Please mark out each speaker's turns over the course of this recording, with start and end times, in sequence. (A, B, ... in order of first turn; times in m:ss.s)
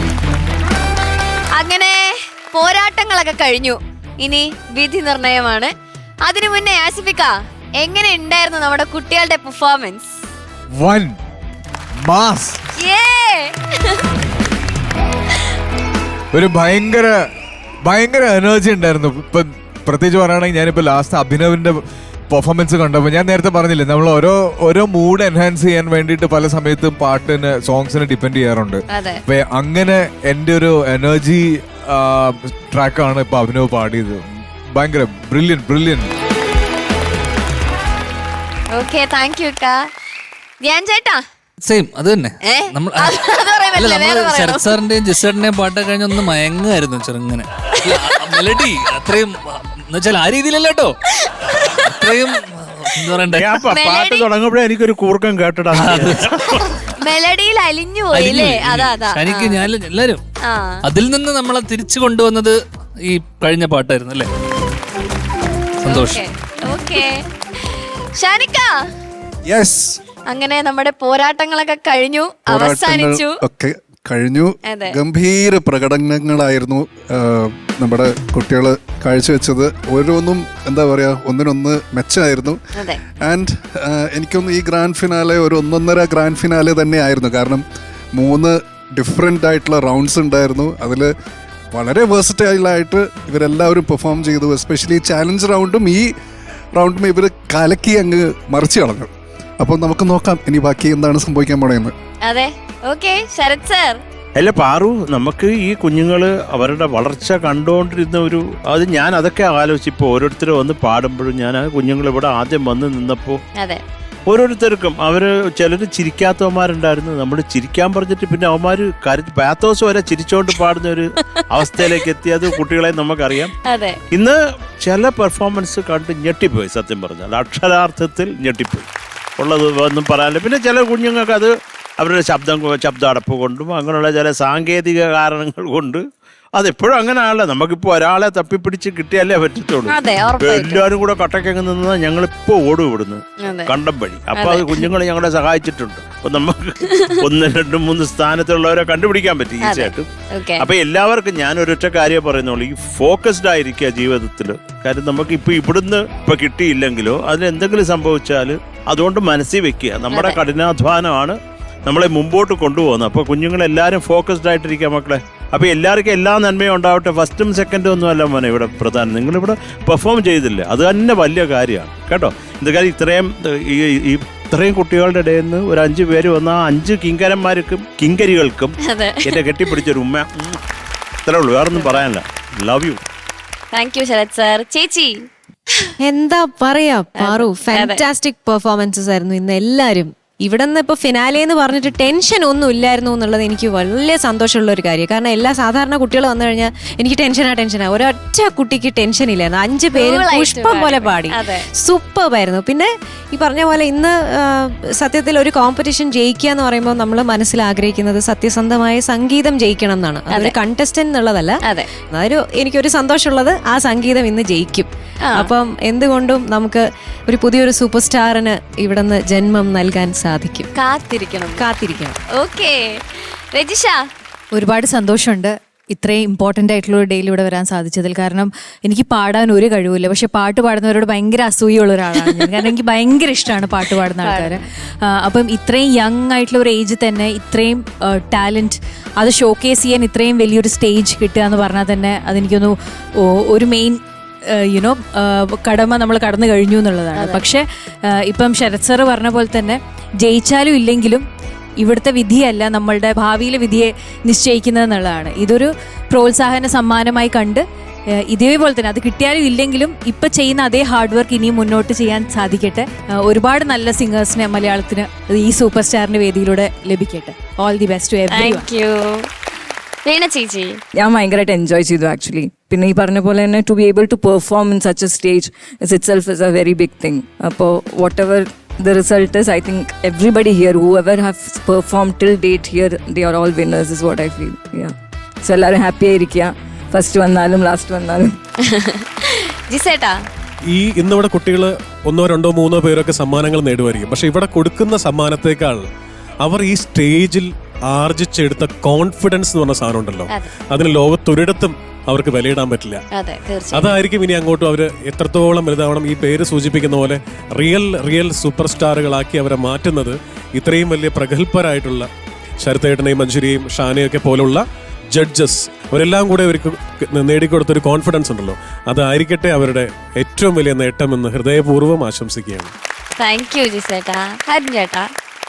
0:01.5-0:05.7 A
0:06.2-0:10.2 A
0:10.8-0:11.2 B
0:12.0-0:12.6 B
0:12.8-0:14.0 A
0:16.3-0:17.2 B
0:17.8-0:36.1 B
0:28.9-0:29.2 A
0:38.7-0:39.9 A
0:40.6-0:41.2 A
0:41.6-0:43.2 C
0:42.4-0:44.8 A
0:43.7-0:51.0 C
0:47.7-0:48.4 A
0:51.2-0:51.8 A
0:51.9-0:53.6 C
0:53.3-0:56.7 D
0:53.7-0:54.3 A
0:55.7-0:56.2 C
0:56.9-0:59.7 A
0:58.1-1:00.2 C
1:00.4-1:00.9 A
1:00.8-1:04.3 C
1:05.8-1:07.2 A
1:05.8-1:06.2 C
1:08.2-1:08.7 A
1:09.5-1:10.0 E
1:10.3-1:13.4 A
1:12.5-1:22.6 E
1:14.7-1:15.0 A
1:23.2-1:27.6 E
1:28.2-1:31.1 E
1:31.7-1:36.1 E
1:36.8-1:39.1 E
1:39.6-1:41.9 E
1:42.2-1:44.0 A
1:44.4-1:53.4 D
1:53.6-1:53.8 A
1:54.3-2:03.6 D
2:03.6-2:04.0 A
2:04.1-2:08.9 D
2:09.4-2:16.0 D
2:16.6-2:58.8 D
2:19.9-2:20.8 A
2:23.4-2:23.7 A
2:24.3-2:24.9 A
2:26.8-2:27.2 A
2:29.6-2:30.6 A
2:40.1-2:40.4 A
2:58.8-2:59.4 A
2:59.3-3:00.6 D
3:01.3-3:03.0 D
3:01.7-3:02.0 A
3:03.7-3:05.3 A
3:06.0-3:31.6 F
3:07.2-3:08.0 A
3:20.0-3:21.6 A
3:30.3-3:30.6 A
3:31.6-3:31.9 A
3:32.1-3:40.7 F
3:40.7-3:41.7 A
3:41.6-3:42.2 F
3:42.3-3:42.8 A
3:43.5-3:44.0 A
3:44.5-4:04.0 G
3:52.2-3:52.5 A
3:54.2-3:54.6 A
4:04.6-4:11.2 G
4:07.2-4:07.5 A
4:11.8-4:17.6 G
4:18.3-4:28.7 G
4:28.3-4:29.3 A
4:30.0-4:30.8 A
4:31.0-4:44.9 H
4:45.4-4:48.3 H
4:48.6-4:50.2 A
4:50.7-4:55.8 I
4:56.4-5:03.0 I
5:03.1-5:04.0 A
5:03.7-5:12.1 I
5:12.6-5:22.7 I
5:23.2-5:25.1 A